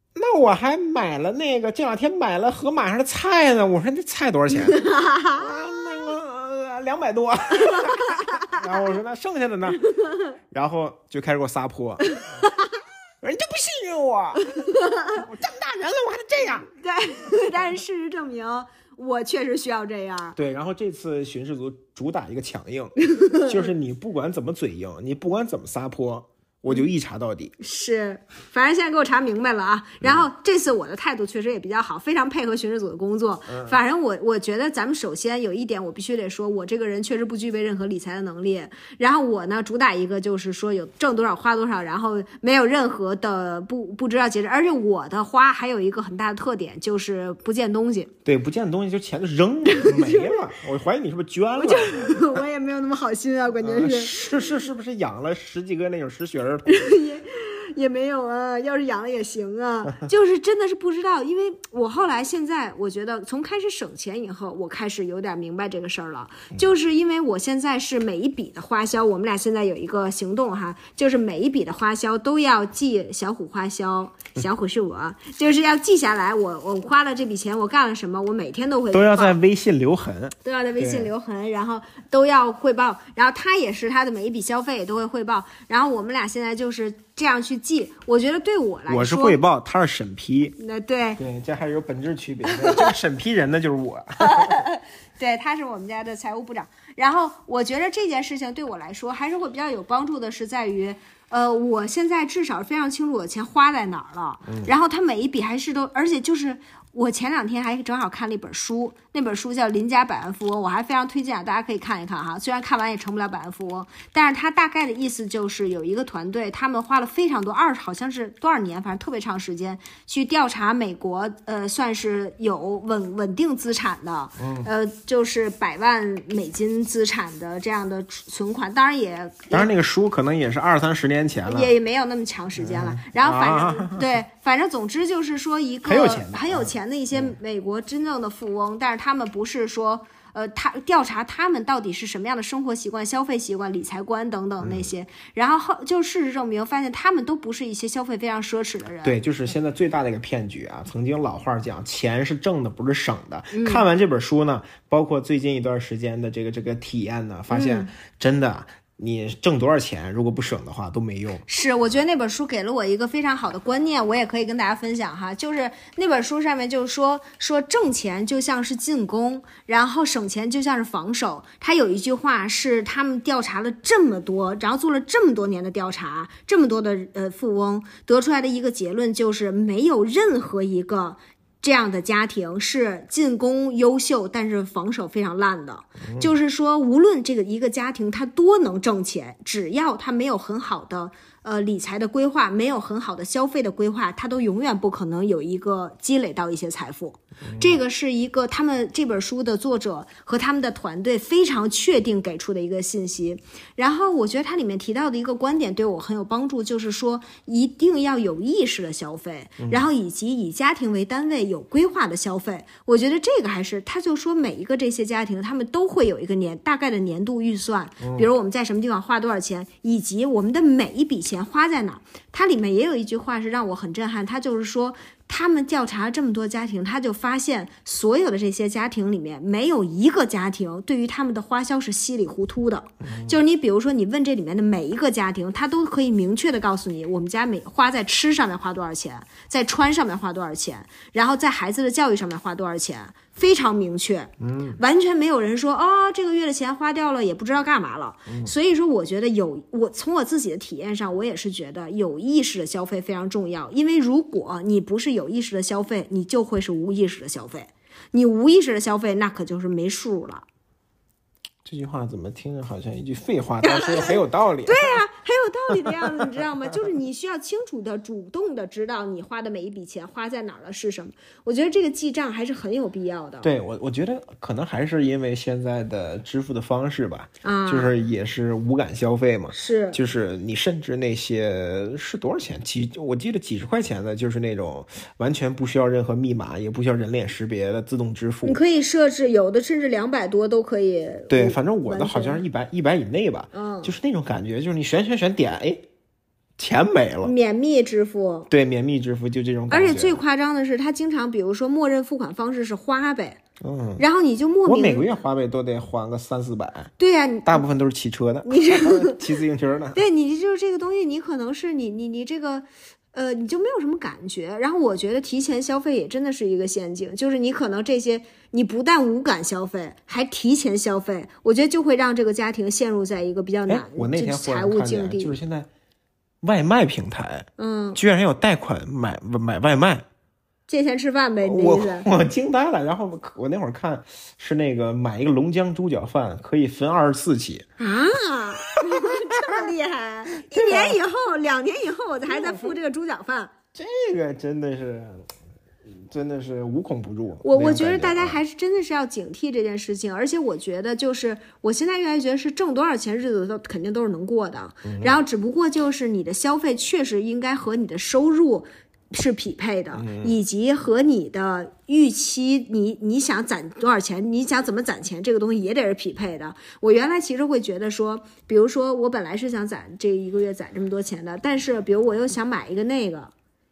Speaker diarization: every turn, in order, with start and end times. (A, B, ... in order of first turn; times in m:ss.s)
0:00.1-0:09.8 A
0:04.5-0:05.4 B
0:07.6-0:08.6 B
0:10.5-0:12.2 A
0:12.1-0:12.6 B
0:13.2-0:16.7 A
0:14.5-0:15.2 B
0:16.8-0:20.4 B
0:20.4-0:27.5 A
0:23.0-0:23.7 B
0:27.6-0:48.1 B
0:30.0-0:30.3 A
0:33.5-0:33.8 A
0:48.2-0:52.4 A
0:49.7-0:50.5 B
0:51.6-0:54.4 B
0:53.6-0:56.9 A
0:56.7-1:19.4 B
1:18.9-1:21.1 A
1:20.4-1:29.4 B
1:28.9-1:30.6 A
1:30.6-1:31.2 B
1:31.2-1:34.6 A
1:32.5-1:32.9 B
1:34.2-2:09.7 B
1:44.5-1:44.7 A
2:04.4-2:04.7 A
2:09.5-2:11.7 A
2:11.4-2:29.1 B
2:12.6-2:14.1 A
2:15.8-2:17.3 A
2:24.6-2:24.9 A
2:29.0-2:41.4 A
2:33.5-2:33.8 B
2:37.5-2:37.9 B
2:41.5-4:20.4 B
3:06.0-3:06.3 A
3:17.4-3:17.8 A
3:29.6-3:29.9 A
3:38.0-3:38.3 A
3:53.0-3:53.4 A
4:04.4-4:04.8 A
4:21.6-4:25.0 A
4:23.6-4:33.5 B
4:25.7-4:26.5 A
4:33.4-4:48.6 A
4:37.4-4:37.9 B
4:39.5-4:40.0 B
4:48.4-4:52.4 B
4:51.3-4:55.8 A
4:53.5-4:53.9 B
4:56.6-4:57.3 A
4:57.2-4:58.5 B
4:58.5-5:00.2 A
4:59.7-5:03.4 B
5:03.6-5:04.0 A
5:04.0-5:05.1 B
5:04.6-5:06.9 A
5:07.0-5:07.6 B
5:07.4-5:10.0 A
5:08.5-5:09.2 B
5:09.9-5:25.4 B
5:23.7-5:25.7 A
5:26.4-5:30.0 A
5:27.6-5:28.0 B
5:30.7-5:32.1 B
5:31.4-5:37.6 A
5:37.8-5:43.5 B
5:38.8-5:39.6 A
5:40.4-5:41.0 A
5:42.3-5:42.7 A
5:43.7-5:45.3 A
5:45.8-5:48.4 A
5:47.4-6:13.3 B
5:54.8-5:55.2 A
5:59.9-6:00.4 A